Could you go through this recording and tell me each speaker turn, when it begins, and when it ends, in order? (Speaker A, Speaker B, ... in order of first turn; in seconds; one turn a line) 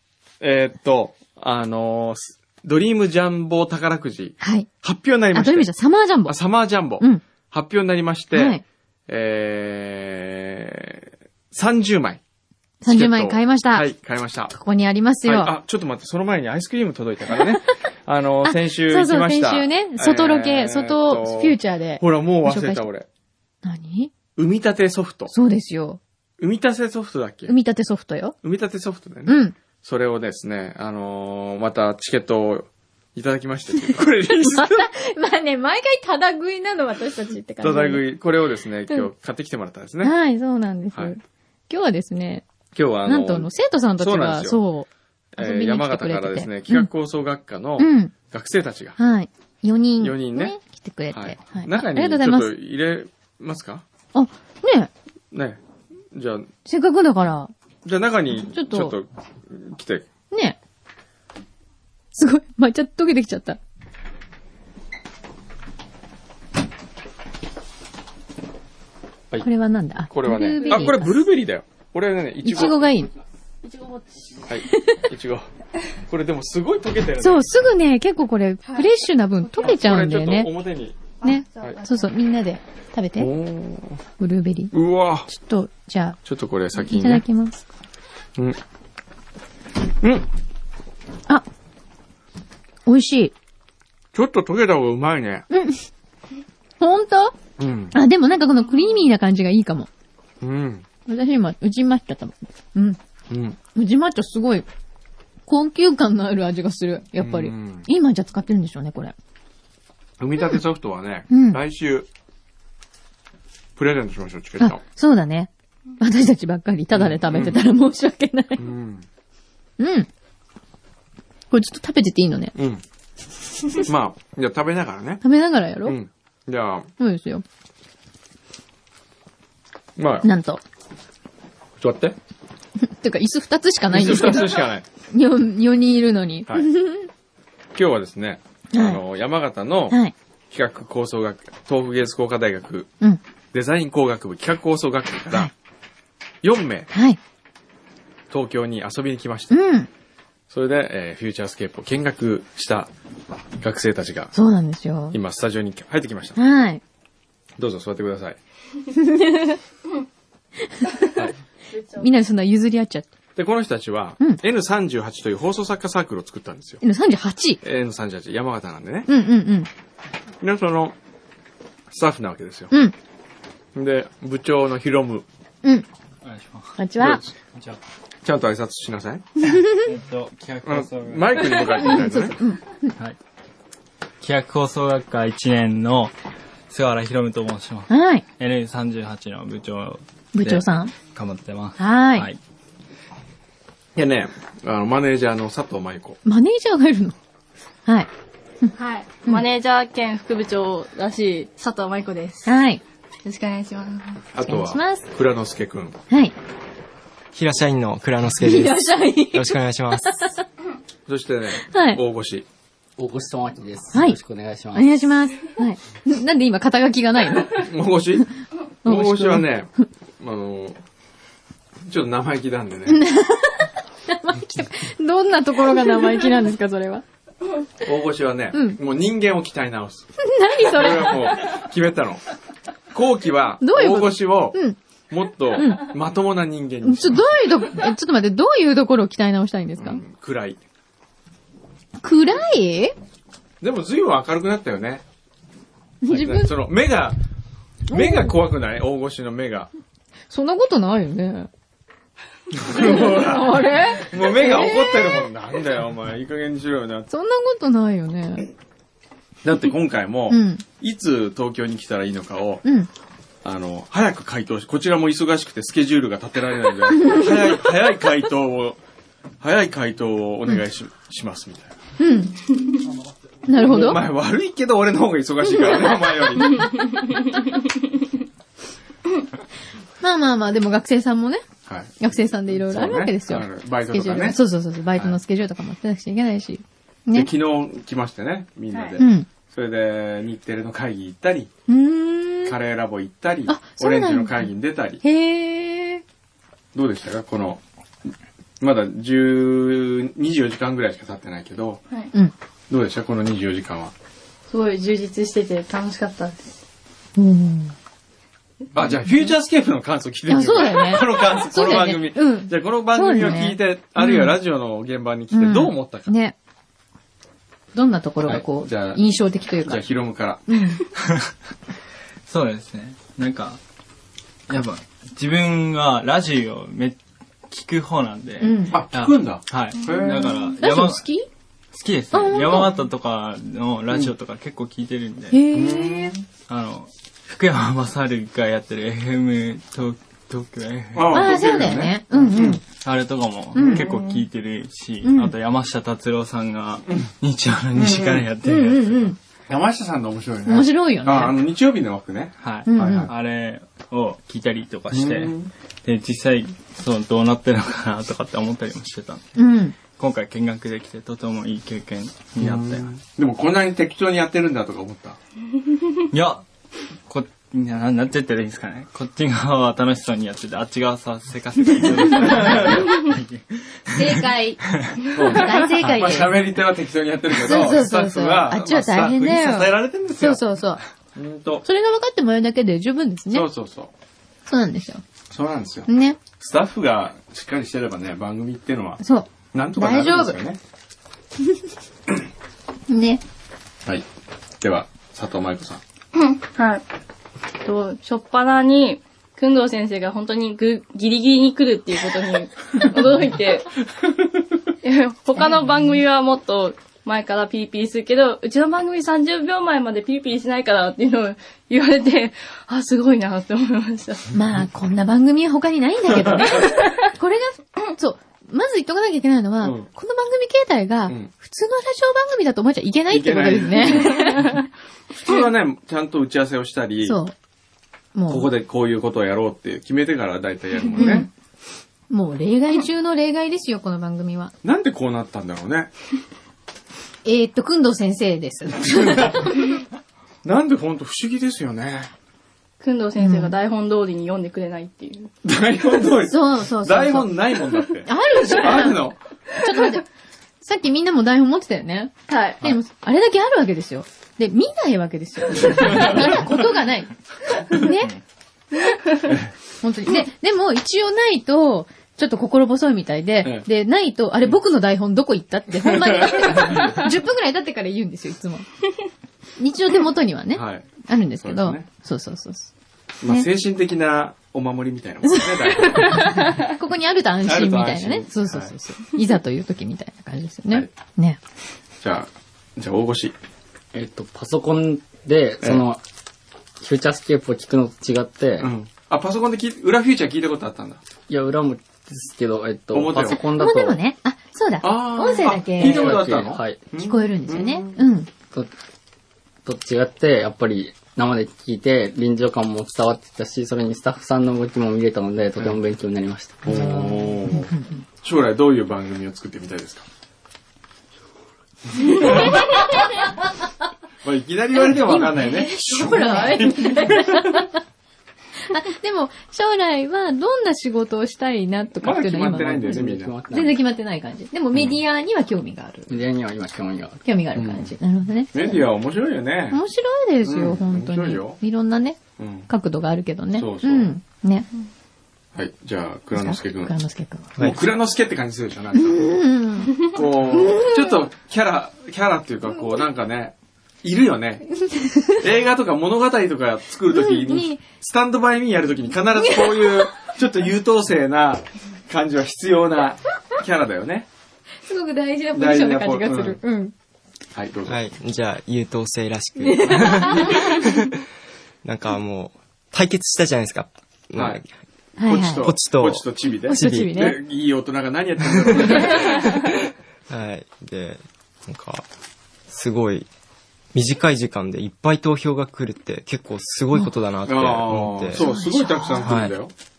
Speaker A: 0.4-5.7
Speaker B: 4.4-4.7
Speaker B: 5.3-6.4
Speaker A: 6.3-12.2
Speaker B: 8.3-8.6
Speaker B: 12.8-13.9
Speaker A: 12.9-14.5
Speaker B: 14.5-15.5
Speaker A: 15.2-23.1
Speaker B: 18.4-22.9
Speaker B: 23.6-24.1
Speaker A: 24.4-25.3
Speaker B: 25.3-26.0
Speaker A: 26.4-27.5
Speaker B: 27.5-28.4
Speaker A: 28.4-34.9
Speaker B: 29.3-29.6
Speaker B: 33.9-38.0
Speaker A: 37.6-40.1
Speaker B: 40.0-42.5
Speaker A: 42.7-44.6
Speaker B: 43.1-46.9
Speaker A: 45.3-49.0
Speaker B: 47.8-48.1
Speaker B: 49.0-52.5
Speaker A: 50.0-50.6
Speaker A: 51.1-53.8
Speaker B: 54.1-54.9
Speaker A: 55.3-55.6
Speaker A: 56.1-56.5
Speaker B: 56.7-57.5
Speaker A: 57.8-60.1
Speaker B: 58.3-59.0
Speaker B: 60.3-60.6
Speaker B: 62.1-63.6
Speaker B: 69.4-71.2
Speaker A: 70.1-72.8
Speaker B: 72.4-73.1
Speaker C: 73.6-74.5
Speaker A: 74.5-75.5
Speaker B: 74.7-75.0
Speaker A: 76.1-77.6
Speaker B: 77.2-80.5
Speaker A: 79.6-81.8
Speaker C: 81.2-82.1
Speaker B: 81.2-83.3
Speaker A: 83.2-84.0
Speaker B: 84.2-84.7
Speaker A: 84.7-85.3
Speaker B: 85.3-86.2
Speaker A: 86.2-87.2
Speaker B: 86.8-87.6
Speaker A: 90.0-90.3
Speaker B: 92.9-93.3
Speaker A: 94.1-95.5
Speaker B: 95.5-95.9
Speaker B: 96.8-97.3
Speaker A: 97.6-98.0
Speaker B: 97.9-99.9
Speaker A: 100.4-100.9
Speaker B: 101.1-103.0
Speaker A: 103.3-103.6
Speaker B: 103.8-104.7
Speaker B: 105.5-109.1
Speaker A: 107.2-107.9
Speaker A: 110.2-112.1
Speaker B: 111.3-111.6
Speaker A: 113.8-114.8
Speaker B: 114.6-118.6
Speaker A: 116.9-117.6
Speaker A: 118.6-119.1
Speaker B: 119.8-120.1
Speaker B: 121.5-122.5
Speaker A: 122.6-122.8
Speaker A: 123.8-125.2
Speaker B: 125.2-126.0
Speaker A: 125.8-126.9
Speaker B: 127.0-127.4
Speaker A: 130.0-130.3
Speaker B: 130.2-130.6
Speaker A: 131.8-132.2
Speaker B: 132.8-137.1
Speaker A: 133.9-134.9
Speaker A: 137.8-140.0
Speaker B: 138.7-139.0
Speaker A: 140.5-142.9
Speaker A: 143.5-145.5
Speaker A: 146.4-146.9
Speaker B: 146.9-147.2
Speaker A: 148.3-149.6
Speaker B: 149.5-149.9
Speaker A: 150.5-152.9
Speaker A: 153.6-154.3
Speaker B: 154.3-155.2
Speaker A: 155.1-156.4
Speaker B: 156.4-156.8
Speaker A: 157.6-158.4
Speaker B: 158.9-159.6
Speaker B: 160.6-160.9
Speaker C: 161.7-162.1
Speaker B: 162.0-163.1
Speaker A: 163.4-166.8
Speaker B: 166.8-167.6
Speaker A: 167.6-169.1
Speaker B: 169.1-169.7
Speaker A: 170.4-171.0
Speaker A: 171.9-172.7
Speaker A: 173.8-175.3
Speaker D: 176.2-176.8
Speaker B: 176.8-177.2
Speaker A: 177.0-177.3
Speaker D: 177.5-177.8
Speaker A: 178.2-179.3
Speaker B: 179.4-179.8
Speaker D: 179.8-181.8
Speaker A: 180.7-182.4
Speaker B: 181.8-182.9
Speaker D: 184.2-186.1
Speaker D: 186.7-192.4
Speaker B: 187.9-188.2
Speaker B: 190.3-190.9
Speaker B: 191.8-192.3
Speaker A: 193.9-196.2
Speaker B: 196.2-197.2
Speaker C: 198.8-202.5
Speaker B: 202.4-202.8
Speaker C: 203.2-204.2
Speaker A: 204.3-206.0
Speaker B: 204.5-205.1
Speaker B: 206.1-206.3
Speaker E: 207.3-210.2
Speaker B: 208.4-210.4
Speaker A: 211.1-212.5
Speaker B: 211.6-212.0
Speaker F: 213.0-214.9
Speaker B: 213.9-214.2
Speaker B: 214.7-217.7
Speaker A: 217.6-218.3
Speaker B: 218.8-219.5
Speaker A: 218.8-220.8
Speaker A: 221.9-223.0
Speaker B: 222.9-227.0
Speaker A: 227.8-230.1
Speaker B: 228.5-228.8
Speaker B: 230.2-231.3
Speaker A: 230.6-232.2
Speaker A: 232.9-237.3
Speaker B: 233.6-234.8
Speaker B: 235.6-235.9
Speaker B: 236.8-240.0
Speaker A: 239.8-240.6
Speaker B: 242.0-242.9
Speaker A: 243.6-245.0
Speaker B: 246.0-246.5
Speaker A: 246.1-247.2
Speaker A: 247.9-249.7
Speaker B: 247.9-248.3
Speaker B: 250.3-251.5
Speaker A: 252.5-257.1
Speaker B: 252.7-255.2
Speaker B: 257.1-258.5
Speaker A: 259.4-262.6
Speaker B: 260.3-260.6
Speaker B: 262.6-262.9
Speaker A: 263.4-268.8
Speaker A: 269.4-271.8
Speaker B: 272.0-272.4
Speaker B: 273.5-274.0
Speaker A: 273.5-276.9
Speaker C: 277.0-277.4
Speaker B: 280.0-281.4
Speaker A: 281.7-284.4
Speaker B: 282.0-287.3
Speaker A: 287.1-291.5
Speaker B: 289.0-289.3
Speaker B: 291.7-292.6
Speaker A: 292.4-295.0
Speaker B: 293.5-294.5
Speaker B: 295.0-296.0
Speaker A: 296.7-297.6
Speaker A: 298.6-301.8
Speaker A: 302.7-303.9
Speaker C: 304.5-306.5
Speaker B: 307.2-307.8
Speaker A: 308.7-316.1
Speaker B: 310.3-314.4
Speaker B: 315.3-316.4
Speaker B: 317.7-319.8
Speaker A: 318.3-319.0
Speaker A: 319.6-320.6
Speaker B: 320.5-320.8
Speaker D: 322.3-323.6
Speaker D: 324.5-327.0
Speaker D: 327.5-331.1
Speaker B: 328.4-328.8
Speaker A: 328.7-330.4
Speaker B: 330.6-331.3
Speaker D: 331.7-335.4
Speaker B: 332.1-332.7
Speaker B: 335.3-336.2
Speaker A: 335.5-336.2
Speaker D: 336.5-341.3
Speaker A: 340.9-342.6
Speaker B: 341.1-342.6
Speaker D: 342.6-349.2
Speaker B: 343.6-343.9
Speaker A: 343.6-344.2
Speaker B: 345.0-345.3
Speaker A: 347.8-348.3
Speaker B: 348.4-349.2
Speaker A: 349.5-353.1
Speaker B: 350.5-351.4
Speaker D: 352.4-362.9
Speaker B: 352.7-353.1
Speaker A: 354.9-355.5
Speaker B: 359.4-359.8
Speaker A: 362.4-365.2
Speaker D: 366.1-366.4
Speaker D: 367.1-375.1
Speaker A: 372.2-372.9
Speaker B: 373.9-376.4
Speaker A: 375.1-381.6
Speaker B: 377.3-380.8
Speaker B: 381.6-383.5
Speaker A: 383.3-383.9
Speaker B: 384.5-385.0
Speaker A: 385.3-385.9
Speaker B: 385.9-386.2
Speaker A: 386.4-390.6
Speaker B: 389.0-390.4
Speaker B: 392.9-393.2
Speaker A: 394.6-395.8
Speaker C: 396.1-396.8
Speaker C: 397.6-403.7
Speaker C: 404.8-414.3
Speaker B: 405.4-405.6
Speaker B: 414.3-424.6
Speaker A: 419.6-419.9
Speaker A: 423.1-424.3
Speaker A: 425.2-427.2
Speaker B: 427.0-427.3
Speaker B: 428.1-428.5
Speaker A: 428.3-431.3
Speaker C: 430.9-431.2
Speaker B: 431.0-431.3
Speaker B: 432.1-434.5
Speaker A: 434.6-435.9
Speaker B: 437.2-439.6
Speaker A: 438.9-439.5
Speaker A: 440.4-442.1
Speaker C: 442.8-445.3
Speaker B: 443.2-443.6
Speaker A: 445.4-449.2
Speaker B: 446.3-447.4
Speaker B: 448.1-450.1
Speaker B: 450.6-458.2
Speaker C: 452.3-452.7
Speaker A: 455.7-456.4
Speaker C: 458.9-459.2
Speaker A: 459.3-459.5
Speaker B: 459.8-468.7
Speaker A: 465.8-466.8
Speaker B: 469.6-472.7
Speaker A: 470.5-471.9
Speaker A: 473.2-476.4
Speaker B: 475.3-481.4
Speaker A: 477.4-478.8
Speaker A: 482.0-483.4
Speaker F: 483.9-486.0
Speaker F: 486.8-488.7
Speaker A: 488.6-491.0
Speaker F: 491.3-494.0
Speaker A: 492.9-493.4
Speaker B: 493.2-496.2
Speaker A: 494.8-498.0
Speaker F: 495.8-496.8
Speaker B: 497.0-498.3
Speaker F: 499.6-507.1
Speaker A: 506.6-510.1
Speaker B: 506.7-508.0
Speaker A: 512.0-512.7
Speaker B: 512.1-512.9
Speaker A: 514.2-517.6
Speaker B: 514.8-517.8
Speaker B: 518.7-526.2
Speaker A: 522.0-523.3
Speaker F: 522.4-523.8
Speaker F: 526.1-527.2
Speaker B: 527.2-528.8
Speaker A: 527.6-527.9
Speaker A: 528.5-529.8
Speaker B: 529.7-534.7
Speaker A: 530.4-531.6
Speaker A: 532.4-532.7
Speaker A: 533.5-534.2
Speaker A: 535.5-536.9
Speaker B: 536.4-537.5
Speaker A: 537.6-539.3
Speaker B: 539.0-541.3
Speaker A: 540.0-544.7
Speaker B: 544.8-545.4
Speaker A: 545.3-554.3
Speaker B: 547.1-547.8
Speaker B: 549.4-550.1
Speaker B: 554.9-556.9
Speaker A: 555.5-556.6
Speaker A: 557.5-558.0
Speaker E: 557.9-561.1
Speaker B: 559.6-560.8
Speaker E: 561.8-564.7
Speaker A: 564.4-564.6
Speaker B: 565.2-565.7
Speaker A: 565.3-569.4
Speaker E: 565.5-567.2
Speaker B: 566.7-567.4
Speaker B: 568.8-569.2
Speaker E: 570.3-572.1
Speaker E: 572.7-573.3
Speaker E: 573.9-578.5
Speaker A: 577.5-579.7
Speaker B: 578.3-579.4
Speaker E: 579.2-579.5